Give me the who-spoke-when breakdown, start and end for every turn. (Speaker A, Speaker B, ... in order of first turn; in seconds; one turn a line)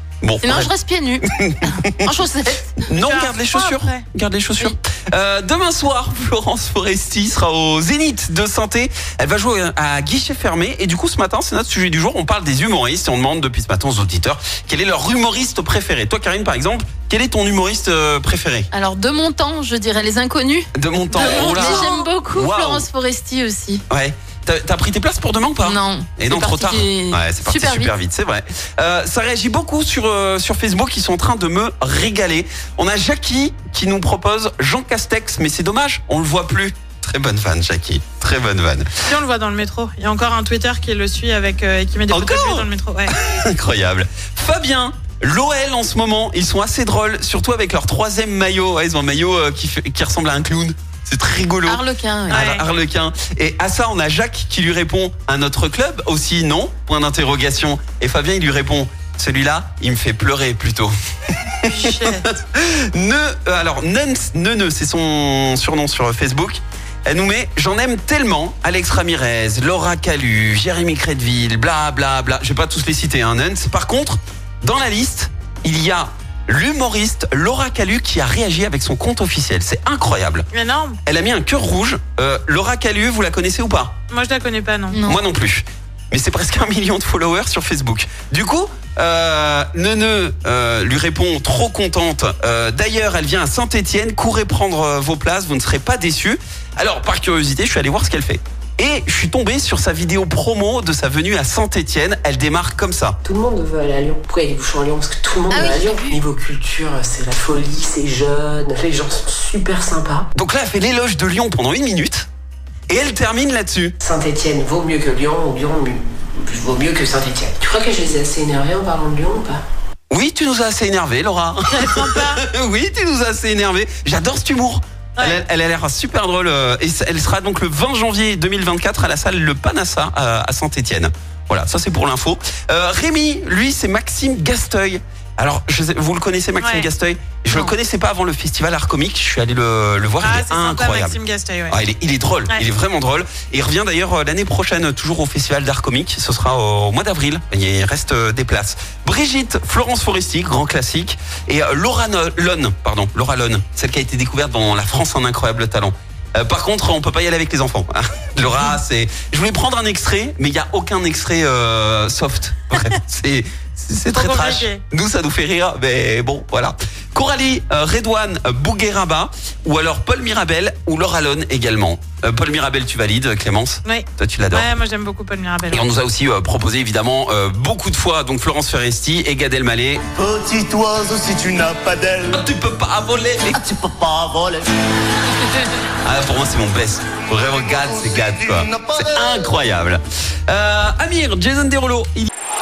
Speaker A: 0.2-0.7
Speaker B: 0.4-1.2
Speaker A: 1.2-18.7
Speaker B: 2.0-2.5
Speaker C: 2.9-4.0
Speaker B: 18.7-23.8
Speaker A: 20.7-22.9
Speaker C: 21.1-22.1
Speaker A: 23.9-39.0
Speaker B: 25.6-27.9
Speaker C: 39.0-43.2
Speaker A: 42.1-60.9
Speaker B: 51.7-52.3
Speaker C: 52.3-52.6
Speaker A: 61.4-80.5
Speaker C: 61.7-62.2
Speaker C: 80.5-81.0
Speaker A: 81.0-83.9
Speaker C: 84.1-85.0
Speaker A: 85.0-103.2
Speaker D: 103.2-110.3
Speaker B: 105.5-106.1
Speaker A: 110.3-112.3
Speaker A: 112.9-113.9
Speaker D: 114.0-119.6
Speaker A: 120.1-141.2
Speaker C: 121.7-122.4
Speaker C: 125.2-125.4
Speaker C: 136.6-136.9
Speaker C: 140.2-141.8
Speaker A: 141.7-174.7
Speaker C: 164.1-164.8
Speaker C: 173.8-175.9
Speaker A: 175.7-180.1
Speaker E: 180.2-182.4
Speaker A: 182.3-183.7
Speaker E: 183.5-184.7
Speaker A: 186.0-192.3
Speaker E: 187.8-189.4